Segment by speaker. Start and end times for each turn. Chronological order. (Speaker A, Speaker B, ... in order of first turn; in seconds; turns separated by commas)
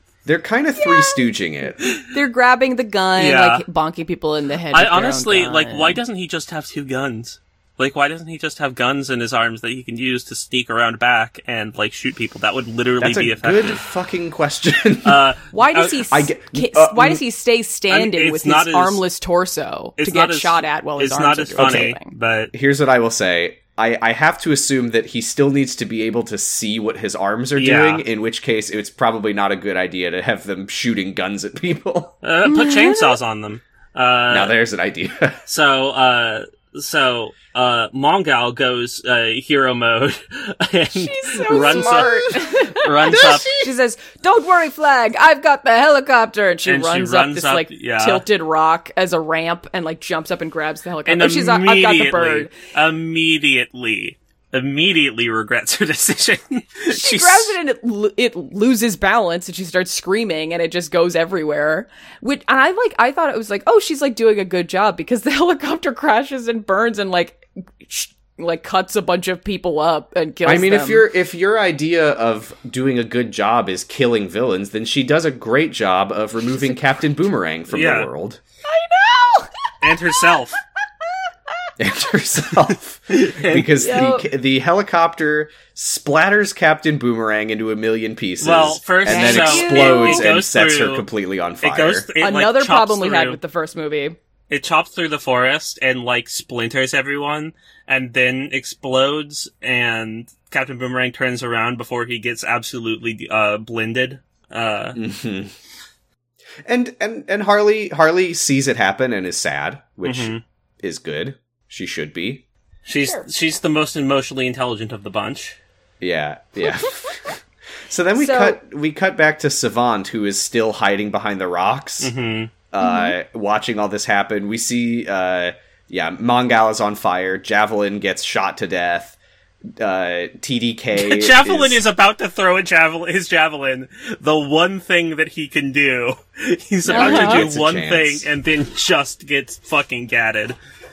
Speaker A: 0.2-1.8, Speaker B: 0.8-1.2, Speaker B: 2.1-6.0, Speaker C: 3.2-3.6, Speaker C: 4.7-13.8, Speaker A: 13.0-15.2, Speaker C: 15.0-16.0, Speaker B: 15.5-22.1, Speaker A: 16.1-17.2, Speaker C: 17.9-19.0, Speaker C: 20.0-22.5, Speaker A: 21.6-21.9, Speaker A: 22.5-32.1, Speaker C: 27.6-28.0, Speaker C: 32.2-34.5, Speaker B: 32.4-33.2, Speaker A: 34.3-35.4, Speaker C: 35.5-43.5, Speaker B: 40.9-52.5, Speaker A: 41.5-42.1, Speaker A: 43.0-43.7, Speaker C: 46.6-48.2, Speaker C: 51.0-57.5, Speaker B: 56.9-71.0, Speaker A: 70.4-78.4, Speaker C: 77.7-78.1, Speaker B: 78.7-80.3, Speaker C: 79.8-80.6, Speaker A: 81.8-92.1, Speaker C: 83.1-83.7, Speaker B: 83.8-84.3, Speaker C: 88.4-91.0, Speaker B: 89.0-90.3, Speaker C: 91.6-93.4, Speaker B: 92.2-94.2, Speaker C: 94.5-105.0, Speaker A: 104.9-105.5, Speaker A: 106.7-112.4, Speaker C: 110.0-110.4, Speaker C: 112.8-115.5, Speaker B: 113.0-113.3, Speaker A: 116.0-122.1, Speaker B: 118.2-118.6, Speaker C: 122.0-122.5, Speaker A: 122.7-129.2, Speaker B: 122.8-123.1, Speaker A: 129.8-131.8, Speaker C: 130.9-140.6, Speaker A: 136.8-138.2, Speaker B: 136.9-137.4